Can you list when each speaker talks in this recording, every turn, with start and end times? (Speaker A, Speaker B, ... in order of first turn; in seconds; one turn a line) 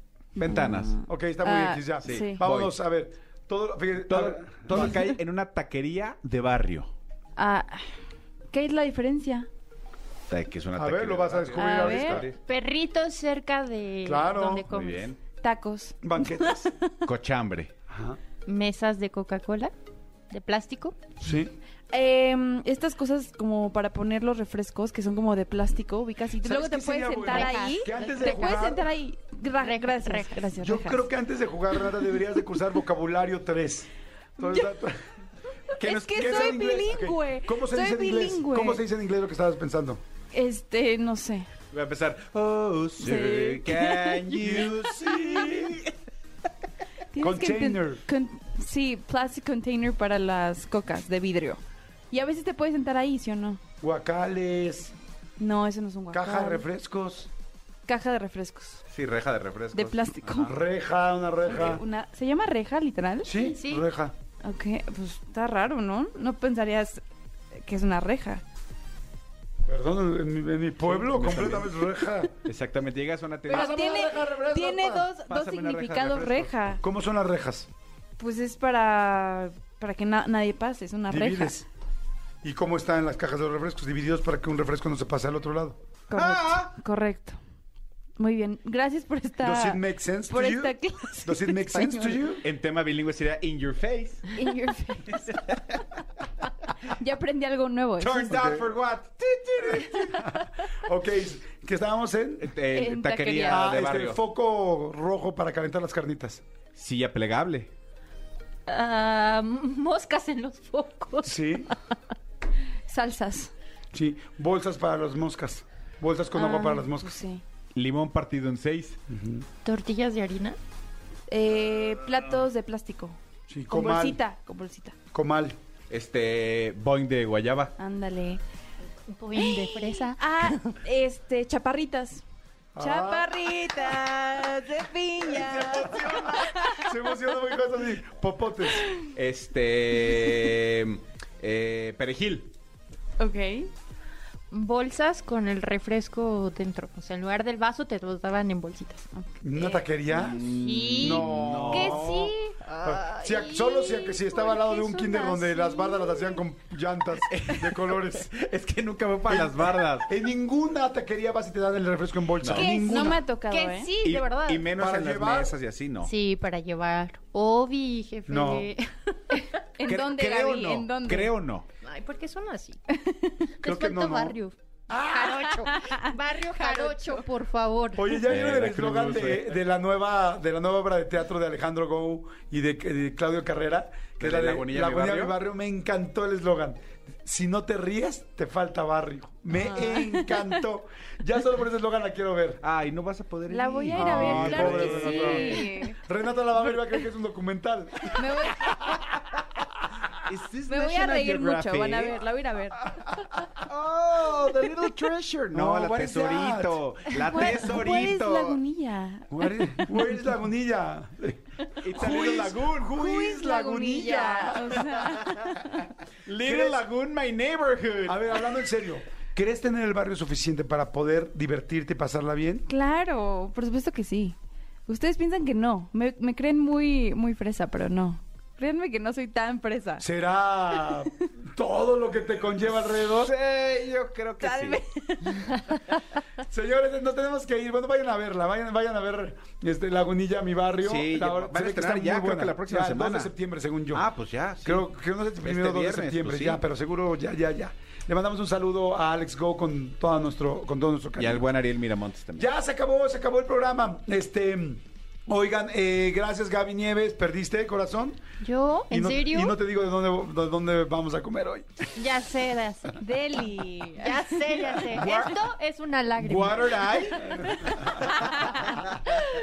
Speaker A: 0.3-1.0
Speaker B: 0.5-2.4
Speaker C: 1.0-5.1
Speaker A: 2.0-2.7
Speaker A: 4.1-6.9
Speaker B: 7.3-7.9
Speaker B: 8.5-9.5
Speaker A: 10.3-12.4
Speaker C: 10.7-12.3
Speaker B: 11.5-12.2
Speaker D: 12.4-15.1
Speaker C: 14.0-14.7
Speaker A: 14.7-15.2
Speaker B: 15.4-16.8
Speaker C: 16.0-16.7
Speaker A: 17.0-17.7
Speaker C: 17.9-18.2
Speaker D: 18.4-19.7
Speaker D: 20.3-20.9
Speaker C: 21.2-21.5
Speaker B: 21.9-31.1
Speaker C: 26.4-28.9
Speaker D: 27.2-28.6
Speaker D: 29.6-30.5
Speaker C: 30.6-35.0
Speaker B: 34.4-34.8
Speaker B: 35.7-38.8
Speaker C: 35.8-40.0
Speaker B: 40.3-41.5
Speaker A: 41.7-45.9
Speaker B: 43.0-44.6
Speaker C: 44.5-45.8
Speaker B: 47.1-53.6
Speaker C: 47.2-48.0
Speaker C: 53.8-54.9
Speaker B: 55.4-56.6
Speaker C: 56.1-57.3
Speaker B: 57.9-58.8
Speaker A: 58.9-60.5
Speaker B: 59.7-60.5
Speaker C: 60.4-61.8
Speaker B: 61.5-63.3
Speaker C: 63.2-64.1
Speaker D: 63.5-63.8
Speaker B: 64.4-67.0
Speaker B: 67.5-68.4
Speaker C: 69.7-72.3
Speaker A: 70.8-71.7
Speaker A: 72.4-73.9
Speaker C: 73.5-75.1
Speaker B: 73.5-76.8
Speaker A: 75.2-76.5
Speaker C: 76.8-77.7
Speaker B: 78.2-81.6
Speaker C: 81.1-81.7
Speaker C: 82.4-85.8
Speaker B: 86.1-87.4
Speaker A: 86.1-86.7
Speaker B: 88.2-92.4
Speaker C: 89.4-92.4
Speaker A: 92.4-94.3
Speaker B: 94.3-95.4
Speaker A: 95.3-96.0
Speaker B: 96.8-98.4
Speaker A: 98.0-100.3
Speaker C: 98.2-98.7
Speaker C: 99.8-102.5
Speaker A: 102.4-104.2
Speaker B: 102.7-103.7
Speaker C: 103.4-106.4
Speaker A: 106.7-107.7
Speaker D: 108.7-111.7
Speaker C: 111.2-111.7
Speaker B: 112.9-113.5
Speaker C: 113.9-117.2
Speaker B: 116.3-117.4
Speaker A: 117.7-119.0
Speaker C: 119.1-119.5
Speaker D: 119.6-120.5
Speaker B: 121.3-124.9
Speaker C: 123.5-124.2
Speaker C: 125.1-125.5
Speaker A: 125.9-127.7
Speaker B: 127.8-128.4
Speaker D: 129.1-130.7
Speaker B: 129.4-132.2
Speaker C: 132.7-133.8
Speaker B: 132.8-136.9
Speaker C: 135.2-138.9
Speaker A: 139.1-142.5
Speaker B: 143.2-143.7
Speaker D: 144.5-156.4
Speaker C: 149.4-152.3
Speaker A: 150.1-152.9
Speaker C: 152.8-158.3
Speaker A: 157.3-160.1
Speaker C: 159.3-163.2
Speaker A: 162.4-163.2
Speaker B: 162.5-163.9
Speaker D: 163.3-164.7
Speaker A: 164.0-166.1
Speaker C: 164.7-165.6
Speaker D: 166.0-169.5
Speaker C: 168.3-168.7
Speaker B: 169.8-171.3
Speaker A: 169.8-171.7
Speaker D: 171.8-172.8
Speaker B: 173.0-173.5
Speaker C: 173.6-174.4
Speaker D: 173.6-178.2
Speaker C: 174.9-175.4
Speaker B: 175.6-177.2
Speaker C: 177.9-192.6
Speaker A: 178.2-179.5
Speaker A: 184.2-185.3
Speaker B: 189.5-190.5
Speaker A: 192.6-195.7
Speaker B: 193.5-196.0
Speaker C: 193.9-199.0
Speaker B: 198.1-199.0
Speaker A: 200.3-202.2
Speaker B: 200.7-203.1
Speaker A: 203.5-208.6
Speaker C: 205.5-206.8
Speaker B: 207.2-210.2
Speaker C: 209.3-215.2
Speaker A: 211.8-213.0
Speaker B: 212.9-215.9
Speaker A: 214.9-215.6
Speaker A: 216.2-218.4
Speaker C: 216.4-216.8
Speaker C: 218.0-222.7
Speaker B: 222.7-224.3
Speaker B: 224.9-230.1
Speaker C: 230.0-233.3
Speaker A: 232.7-234.8
Speaker B: 234.4-235.8
Speaker C: 236.4-244.0
Speaker A: 240.8-243.3
Speaker A: 243.9-244.8
Speaker C: 244.6-251.4
Speaker A: 245.4-246.6
Speaker A: 251.2-252.5
Speaker C: 252.3-258.2
Speaker D: 258.4-259.6
Speaker C: 258.9-261.9
Speaker D: 261.9-263.0
Speaker B: 263.0-264.8
Speaker D: 264.0-267.4
Speaker A: 264.9-265.4
Speaker A: 266.2-268.0
Speaker C: 267.2-268.7
Speaker B: 268.1-269.3